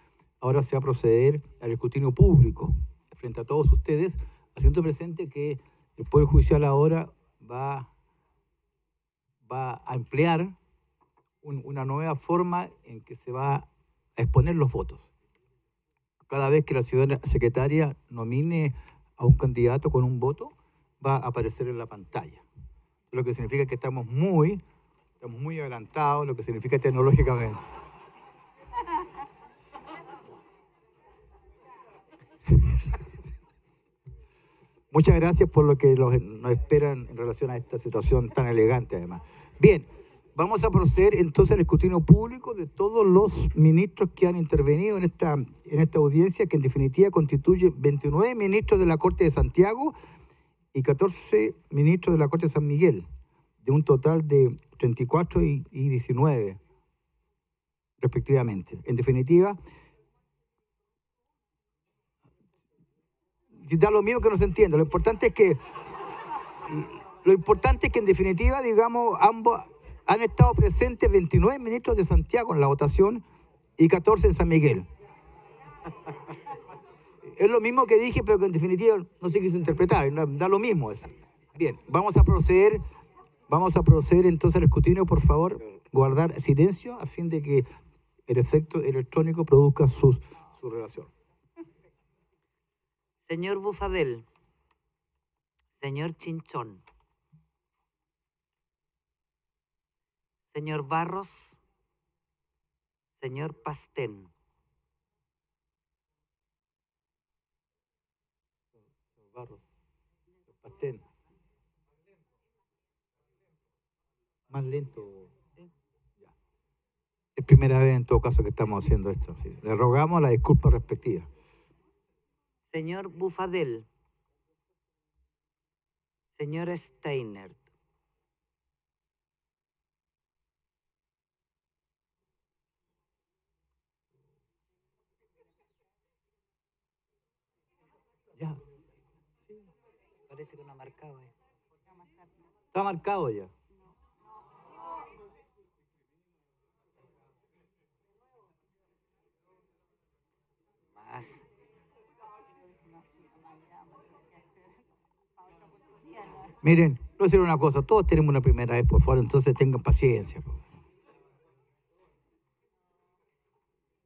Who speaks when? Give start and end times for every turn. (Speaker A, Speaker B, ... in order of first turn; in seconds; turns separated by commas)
Speaker A: 0.4-7.9, Speaker A: 9.4-10.6, Speaker A: 11.4-15.1, Speaker A: 16.3-22.4, Speaker A: 23.1-24.6, Speaker A: 25.2-27.7, Speaker A: 34.9-49.9, Speaker A: 50.7-53.1, Speaker A: 53.6-56.6, Speaker A: 58.0-59.6, Speaker A: 63.5-65.6, Speaker A: 66.6-73.2, Speaker A: 73.8-74.9, Speaker A: 77.2-82.8, Speaker A: 83.5-87.7, Speaker A: 88.3-91.1, Speaker B: 93.2-94.3, Speaker B: 95.8-96.8, Speaker B: 100.5-101.6, Speaker B: 103.2-104.3, Speaker A: 109.0-109.6, Speaker A: 110.5-111.0, Speaker A: 114.5-115.3, Speaker A: 117.4-121.3, Speaker B: 122.7-123.9, Speaker B: 126.3-127.7, Speaker A: 138.4-138.6, Speaker B: 140.3-141.3, Speaker A: 142.7-143.5, Speaker B: 150.9-151.5, Speaker A: 156.6-160.7